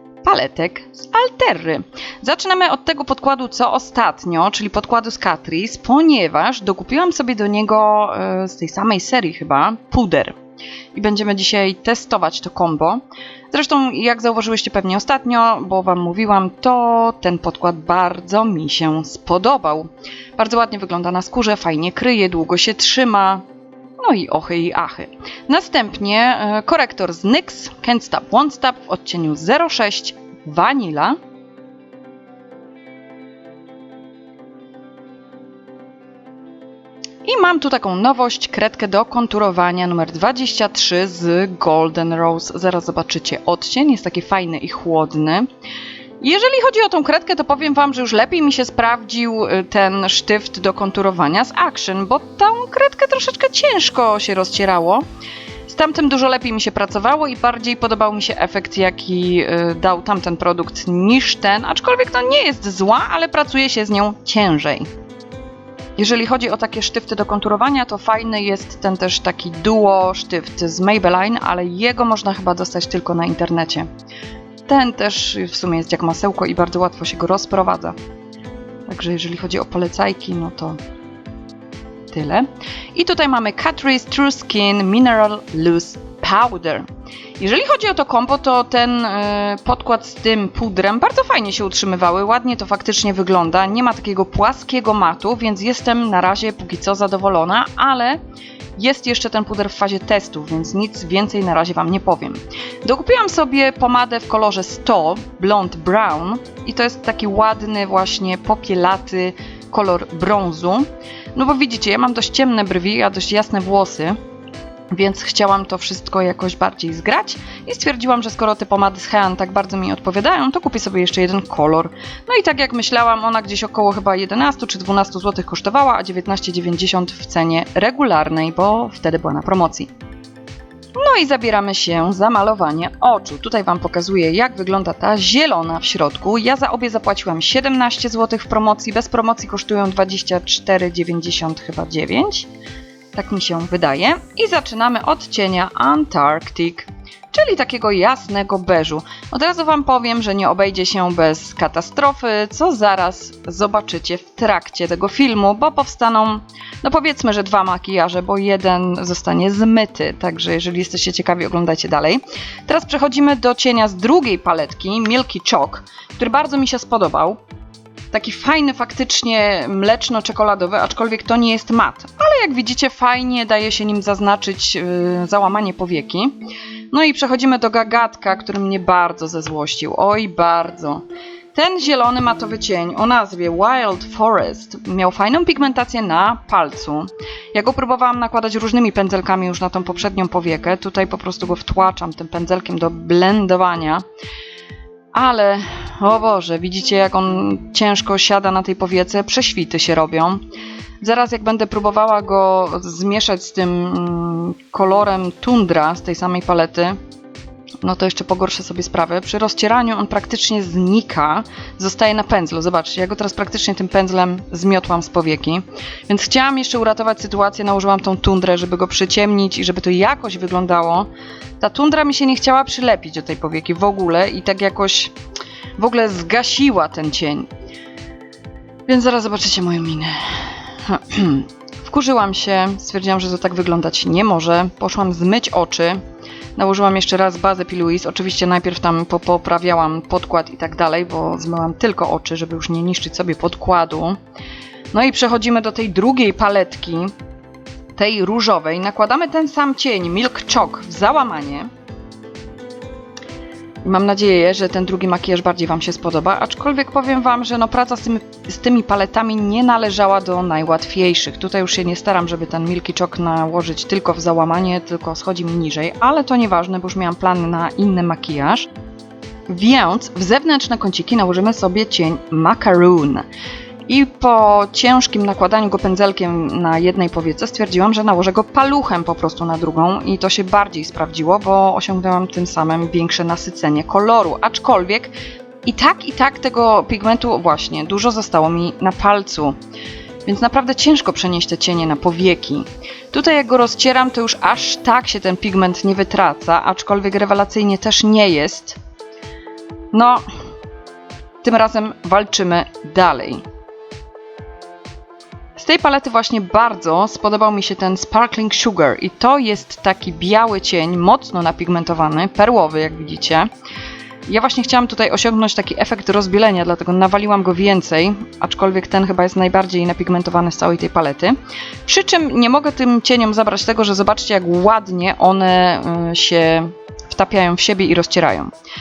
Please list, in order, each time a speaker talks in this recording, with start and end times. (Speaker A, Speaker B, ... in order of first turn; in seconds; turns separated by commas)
Speaker A: 0.2-10.4, Speaker A: 10.9-23.4, Speaker A: 24.0-31.2, Speaker A: 37.2-45.5, Speaker A: 46.2-55.0, Speaker A: 55.6-64.9, Speaker A: 66.0-73.9, Speaker A: 74.7-78.0, Speaker A: 78.9-80.8, Speaker A: 82.1-86.8, Speaker A: 87.4-98.2, Speaker A: 98.8-114.2, Speaker A: 114.9-129.9, Speaker A: 130.9-142.5, Speaker A: 143.1-167.4, Speaker A: 168.1-176.3, Speaker A: 176.9-194.0, Speaker A: 195.1-200.4, Speaker A: 201.0-207.0, Speaker A: 207.8-221.1, Speaker A: 221.6-225.1, Speaker A: 225.8-227.5, Speaker A: 228.9-236.0, Speaker A: 236.6-244.2, Speaker A: 244.9-247.1, Speaker A: 247.9-251.7, Speaker A: 253.8-268.7, Speaker A: 269.5-273.2, Speaker A: 273.9-289.6, Speaker A: 290.2-298.8, Speaker A: 299.9-300.2, Speaker A: 301.4-303.4, Speaker A: 305.6-313.5, Speaker A: 314.3-321.3, Speaker A: 321.9-328.5